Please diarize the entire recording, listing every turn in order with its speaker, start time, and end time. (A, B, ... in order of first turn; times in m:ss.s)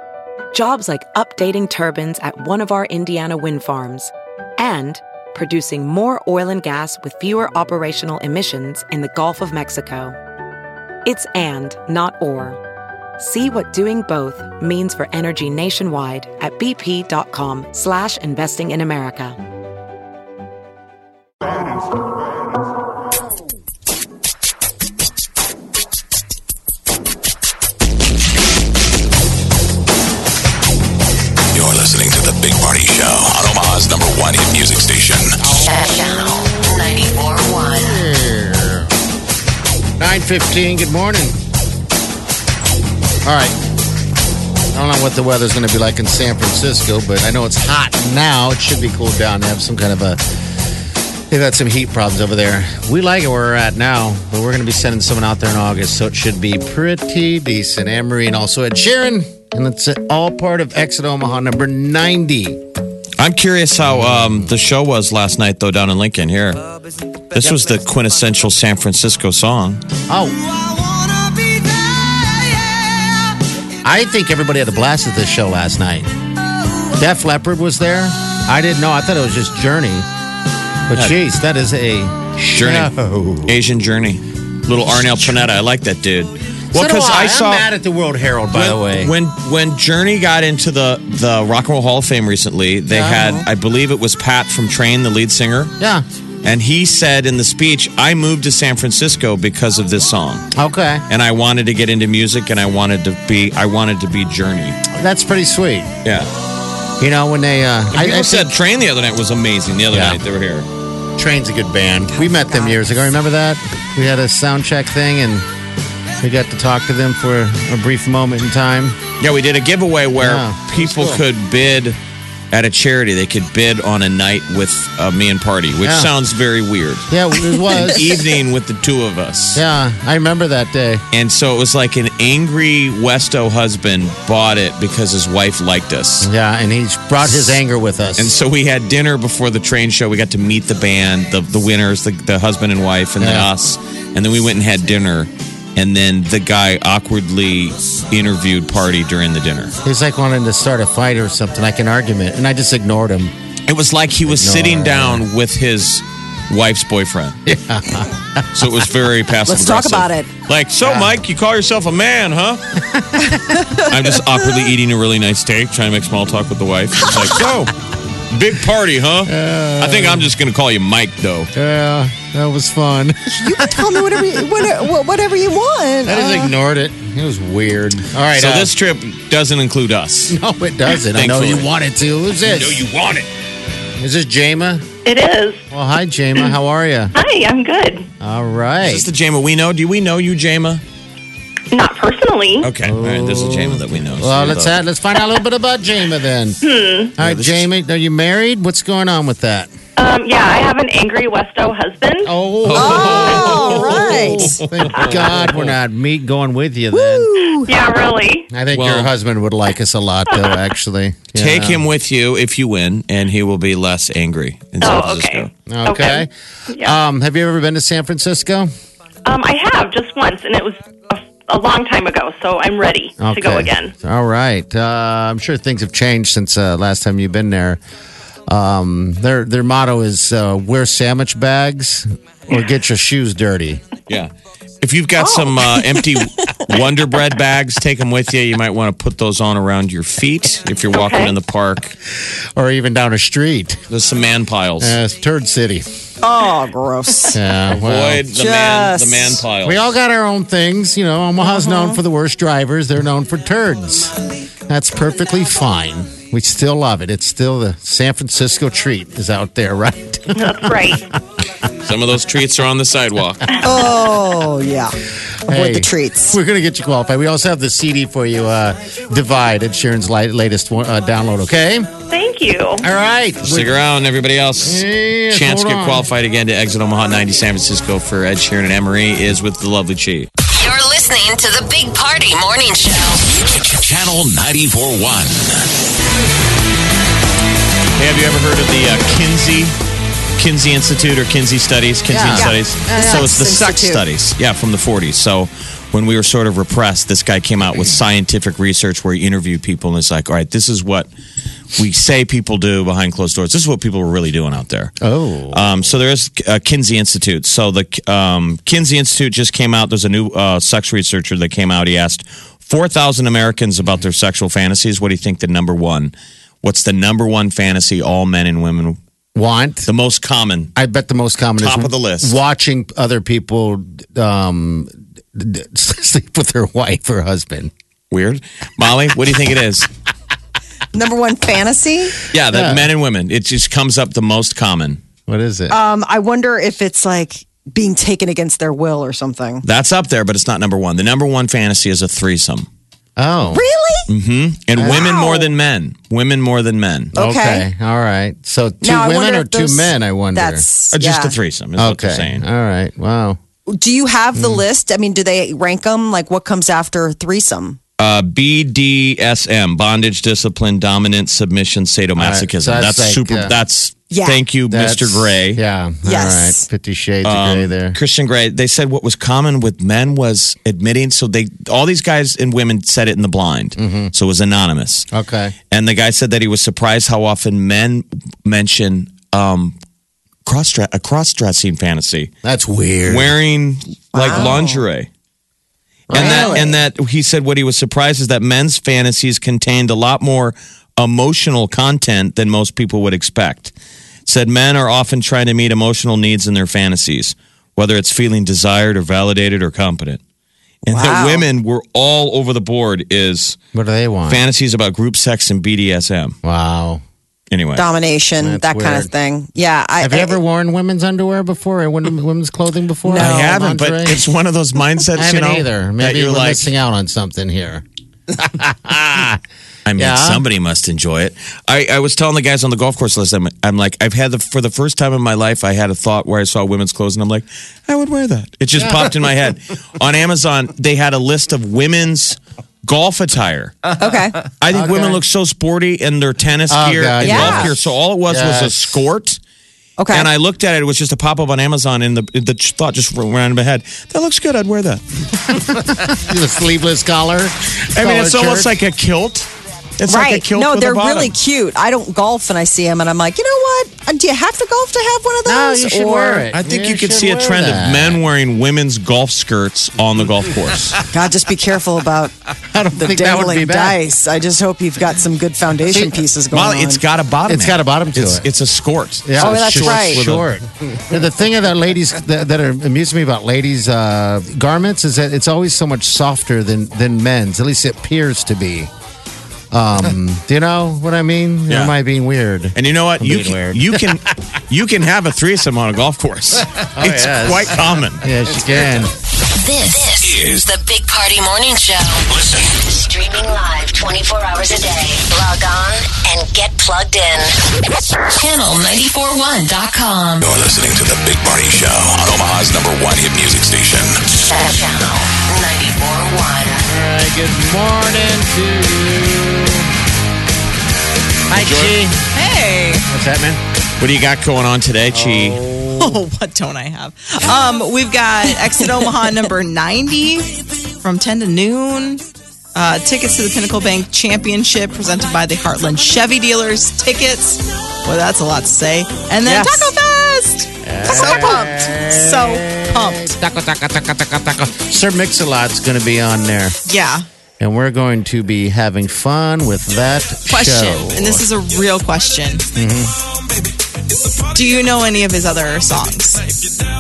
0:00.5-0:10.2 A
0:11.0-0:12.6 A
0:13.2-0:19.4 A
0:31.5-0:35.4 B
0:35.4-0:36.3 C
0:35.5-0:38.0 D
0:37.8-0:38.9 C
0:40.0-0:41.4 C
0:43.2-0:43.6 C
0:44.7-0:50.2 C
0:51.3-1:02.6 C
1:03.2-1:06.6 E
1:03.8-1:04.5 C
1:07.3-1:09.8 E
1:10.1-1:10.4 C
1:13.8-1:16.1 C
1:17.0-1:20.1 C
1:20.9-1:23.6 C
1:22.6-1:22.9 E
1:23.4-1:27.7 E
1:26.7-1:29.1 C
1:28.5-1:35.7 E
1:32.9-1:33.4 C
1:36.4-1:40.5 E
1:40.6-1:41.0 C
1:41.1-1:44.8 E
1:44.9-1:45.9 C
1:46.0-1:46.3 E
1:47.0-1:48.5 C
1:47.9-1:50.7 E
1:49.9-1:50.2 C
1:51.2-1:55.4 C
1:52.2-1:52.8 F
1:56.2-1:59.0 C
1:59.2-2:02.0 E
2:00.2-2:01.2 C
2:02.5-2:07.1 E
2:05.8-2:06.1 C
2:07.1-2:08.1 C
2:07.8-2:09.6 E
2:09.5-2:11.0 C
2:11.1-2:16.3 E
2:16.2-2:18.3 C
2:17.2-2:17.6 E
2:18.2-2:29.7 E
2:23.2-2:23.5 C
2:29.8-2:33.3 C
2:33.7-2:37.4 E
2:34.2-2:35.2 C
2:37.4-2:38.2 C
2:38.5-2:47.7 E
2:39.4-2:40.3 F
2:40.8-2:41.2 C
2:42.9-2:43.2 C
2:43.3-2:43.8 F
2:48.3-2:51.5 E
2:49.2-2:50.3 C
2:51.5-2:54.1 C
2:53.3-2:56.5 F
2:56.0-2:58.7 C
2:58.3-3:00.4 E
3:00.3-3:02.8 C
3:01.0-3:01.7 E
3:02.8-3:03.2 E
3:04.0-3:04.8 C
3:05.0-3:05.6 G
3:05.7-3:07.1 C
3:07.2-3:08.0 G
3:08.2-3:09.1 C
3:08.8-3:10.8 E
3:11.7-3:12.7 G
3:12.6-3:14.8 E
3:12.8-3:16.6 C
3:16.6-3:17.1 G
3:17.2-3:19.7 C
3:17.2-3:17.7 E
3:20.0-3:22.3 G
3:22.2-3:27.3 C
3:22.6-3:25.7 E
3:22.7-3:24.6 F
3:25.0-3:25.2 G
3:26.9-3:27.8 F
3:27.5-3:28.5 G
3:28.5-3:31.8 C
3:28.7-3:29.1 E
3:31.4-3:35.5 E
3:34.8-3:37.0 G
3:35.7-3:38.7 C
3:39.2-3:43.9 G
3:43.2-3:47.8 C
3:48.5-3:53.8 C
3:54.8-4:01.9 E
4:00.9-4:01.3 G
4:02.6-4:03.8 C
4:03.9-4:05.0 E
4:04.8-4:05.8 C
4:06.2-4:07.4 F
4:07.3-4:08.2 C
4:07.7-4:09.8 E
4:08.3-4:09.4 F
4:09.6-4:14.1 C
4:11.4-4:12.0 F
4:14.7-4:21.0 C
4:20.4-4:21.0 G
4:21.8-4:23.5 E
4:23.6-4:24.9 F
4:25.5-4:26.4 F
4:25.5-4:31.9 C
4:32.1-4:32.8 G
4:32.8-4:33.7 C
4:33.4-4:40.3 E
4:34.6-4:36.1 C
4:40.5-4:43.2 D
4:43.5-4:45.7 B
4:48.0-4:49.8 E
4:50.4-5:01.1 E
4:52.1-4:53.3 C
4:52.3-4:54.0 F
5:01.8-5:04.9 E
5:05.0-5:05.7 C
5:05.5-5:19.0 E
5:19.3-5:19.9 C
5:19.8-5:20.7 E
5:20.8-5:27.7 C
5:21.6-5:22.4 E
5:28.1-5:29.9 E
5:30.9-5:32.2 F
5:32.3-5:35.0 E
5:32.5-5:32.9 C
5:35.3-5:35.8 C
5:35.7-5:39.6 F
5:39.6-5:42.7 E
5:43.2-5:43.6 C
5:43.5-5:44.1 F
5:44.1-5:47.1 E
5:44.8-5:45.1 C
5:44.8-5:45.5 F
5:47.1-5:50.6 C
5:47.2-5:47.6 F
5:48.8-5:51.4 F
5:50.9-5:52.4 E
5:51.8-5:53.4 C
5:53.7-5:57.8 F
5:54.3-5:54.6 C
5:58.0-6:05.6 E
6:02.2-6:03.6 C
6:04.1-6:04.4 F
6:04.7-6:08.0 C
6:06.0-6:06.6 F
6:07.2-6:15.1 E
6:13.8-6:14.1 C
6:15.1-6:15.6 C
6:15.7-6:19.8 E
6:20.4-6:22.3 E
6:22.4-6:23.4 C
6:23.0-6:25.1 E
6:24.1-6:24.8 F
6:26.1-6:26.6 C
6:26.1-6:33.7 E
6:26.1-6:26.8 F
6:34.2-6:40.2 E
6:40.8-6:43.6 E
6:40.9-6:41.5 F
6:43.7-6:44.4 C
6:44.3-6:46.3 E
6:46.4-6:47.0 C
6:47.5-6:47.9 E
6:47.8-6:50.4 F
6:48.4-6:49.1 C
6:50.0-6:54.2 C
6:53.0-6:53.6 F
6:53.2-6:56.7 E
6:55.2-6:59.4 C
6:59.8-7:14.0 E
7:00.0-7:00.4 C
7:14.0-7:14.5 F
7:14.5-7:19.4 E
7:14.7-7:15.2 C
7:16.7-7:19.0 C
7:17.2-7:17.7 F
7:20.0-7:20.3 F
7:20.1-7:25.0 E
7:25.5-7:28.8 C
7:27.9-7:31.4 E
7:30.1-7:36.5 F
7:35.4-7:38.2 C
7:36.5-7:41.0 E
7:41.1-7:47.0 F
7:42.7-7:44.0 C
7:45.9-7:46.2 C
7:46.5-7:50.5 E
7:47.5-7:48.5 C
7:49.2-7:58.9 C
7:49.4-7:50.2 F
7:59.7-8:04.2 C
8:01.7-8:02.0 E
8:02.8-8:08.3 E
8:07.0-8:09.1 C
8:09.6-8:17.6 D
8:10.2-8:10.7 B
8:12.3-8:12.7 B
8:18.3-8:20.4 D
8:20.4-8:24.2 B
8:24.4-8:26.8 D
8:26.8-8:29.9 C
8:31.5-8:32.2 C
8:31.5-8:32.0 E
8:32.3-8:33.1 H
8:33.1-8:33.6 C
8:34.0-8:35.6 E
8:35.1-8:36.2 C
8:35.9-8:42.2 H
8:42.8-8:53.4 H
8:49.4-8:49.9 C
8:50.8-8:56.8 C
8:56.9-8:57.2 H
8:57.6-9:01.4 C
9:00.5-9:02.6 H
9:02.8-9:03.2 C
9:04.5-9:06.4 H